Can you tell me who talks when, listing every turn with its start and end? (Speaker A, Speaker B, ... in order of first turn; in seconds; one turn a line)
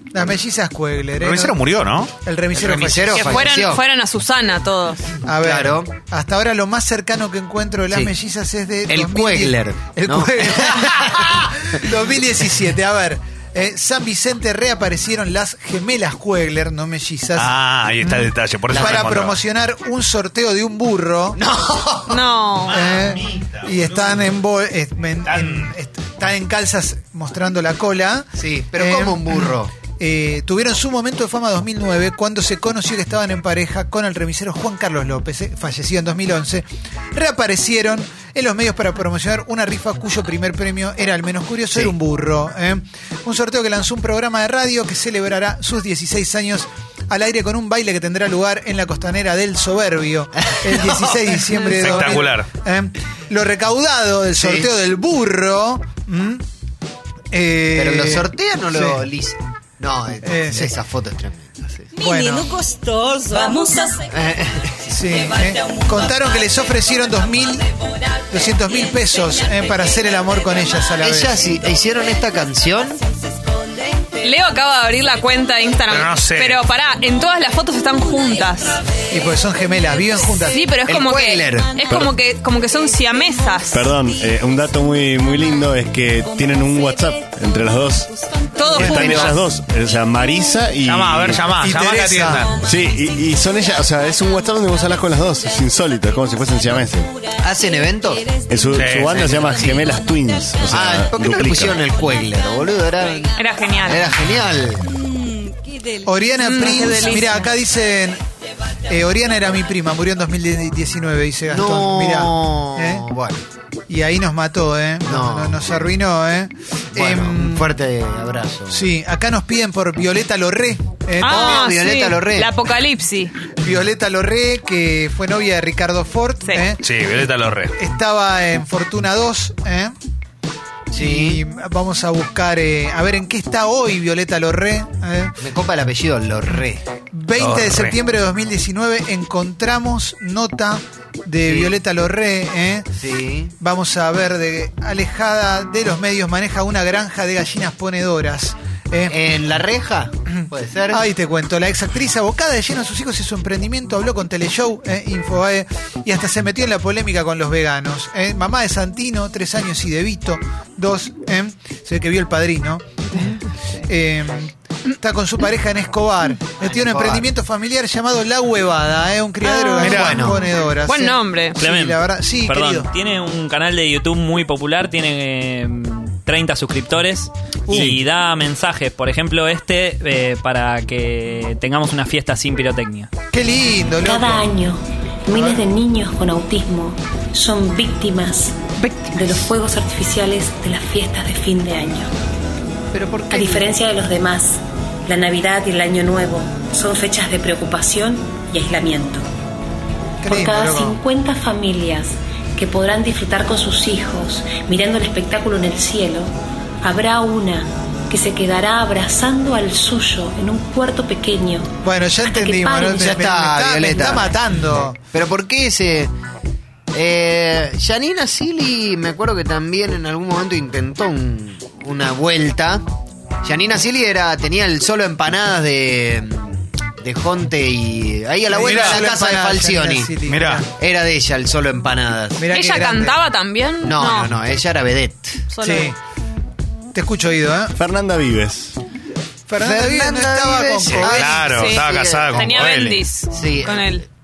Speaker A: 0.1-1.6
Speaker B: 1.2-2.1
Speaker A: 2.2-3.6
Speaker C: 2.5-3.8
Speaker D: 3.1-5.1
Speaker A: 5.2-21.4
Speaker C: 5.4-5.9
Speaker C: 8.9-11.5
Speaker B: 17.4-19.4
Speaker C: 18.7-19.2
Speaker C: 21.4-22.2
Speaker D: 22.1-22.8
Speaker B: 22.7-24.3
Speaker A: 22.7-56.5
Speaker B: 25.3-25.7
Speaker C: 28.4-29.7
Speaker C: 50.4-52.0
Speaker B: 51.8-52.5
Speaker C: 54.4-54.7
Speaker A: 57.3-59.1
Speaker C: 57.8-61.9
Speaker A: 60.2-60.8
Speaker A: 62.0-62.6
Speaker A: 63.3-63.7
Speaker C: 64.0-64.9
Speaker A: 64.9-67.7
Speaker A: 68.3-71.4
Speaker C: 71.0-73.0
Speaker D: 74.2-78.8
Speaker B: 75.9-76.6
Speaker A: 79.1-80.6
Speaker D: 80.5-83.9
Speaker C: 80.9-81.8
Speaker E: 83.7-88.1
Speaker D: 88.6-89.4
Speaker E: 88.7-91.5
Speaker C: 88.8-89.4
Speaker B: 90.8-92.5
Speaker A: 91.6-92.5
Speaker E: 92.6-97.1
Speaker C: 97.4-98.4
Speaker E: 98.4-101.8
Speaker B: 98.7-99.7
Speaker C: 99.4-99.8
Speaker C: 100.7-104.9
Speaker D: 103.4-104.1
Speaker A: 106.0-108.2
Speaker D: 106.4-107.5
Speaker A: 108.9-113.1
Speaker C: 111.5-113.4
Speaker A: 113.9-117.7
Speaker C: 115.1-115.9
Speaker C: 116.9-118.9
Speaker A: 118.7-121.8
Speaker D: 121.2-123.3
Speaker C: 121.2-122.6
Speaker A: 123.6-126.8
Speaker B: 126.8-127.7
Speaker A: 127.8-129.9
Speaker C: 130.9-131.4
Speaker A: 130.9-135.4
Speaker C: 135.4-136.8
Speaker A: 137.1-142.9
Speaker B: 137.4-137.9
Speaker C: 141.4-141.8
Speaker C: 143.0-143.5
Speaker A: 143.6-149.2
Speaker C: 149.1-151.0
Speaker A: 150.4-172.9
Speaker C: 166.6-167.3
Speaker D: 169.4-171.6
Speaker B: 169.8-170.2
Speaker C: 169.8-170.4
Speaker F: 171.6-183.1
Speaker A: 177.7-178.0
Speaker A: 183.3-184.5
Speaker G: 184.0-188.6
Speaker A: 185.3-185.6
Speaker D: 188.8-189.2
Speaker G: 189.1-192.1
Speaker C: 192.9-193.7
Speaker G: 193.3-199.2
Speaker A: 200.2-201.0
Speaker G: 200.3-206.3
Speaker G: 206.8-211.7
Speaker A: 211.8-215.0
Speaker G: 212.2-213.2
Speaker C: 213.0-214.4
Speaker C: 215.1-216.1
Speaker C: 216.9-222.8
Speaker C: 223.4-230.2
Speaker A: 228.5-230.7
Speaker B: 228.6-229.1
Speaker B: 230.3-230.6
Speaker C: 230.8-232.5
Speaker A: 232.4-233.2
Speaker D: 232.5-234.3
Speaker C: 233.8-235.5
Speaker D: 235.5-235.9
Speaker A: 235.6-236.0
Speaker A: 236.9-237.8
Speaker E: 237.8-238.8
Speaker A: 239.5-241.5
Speaker C: 239.6-244.0
Speaker B: 240.9-243.0
Speaker D: 241.5-244.1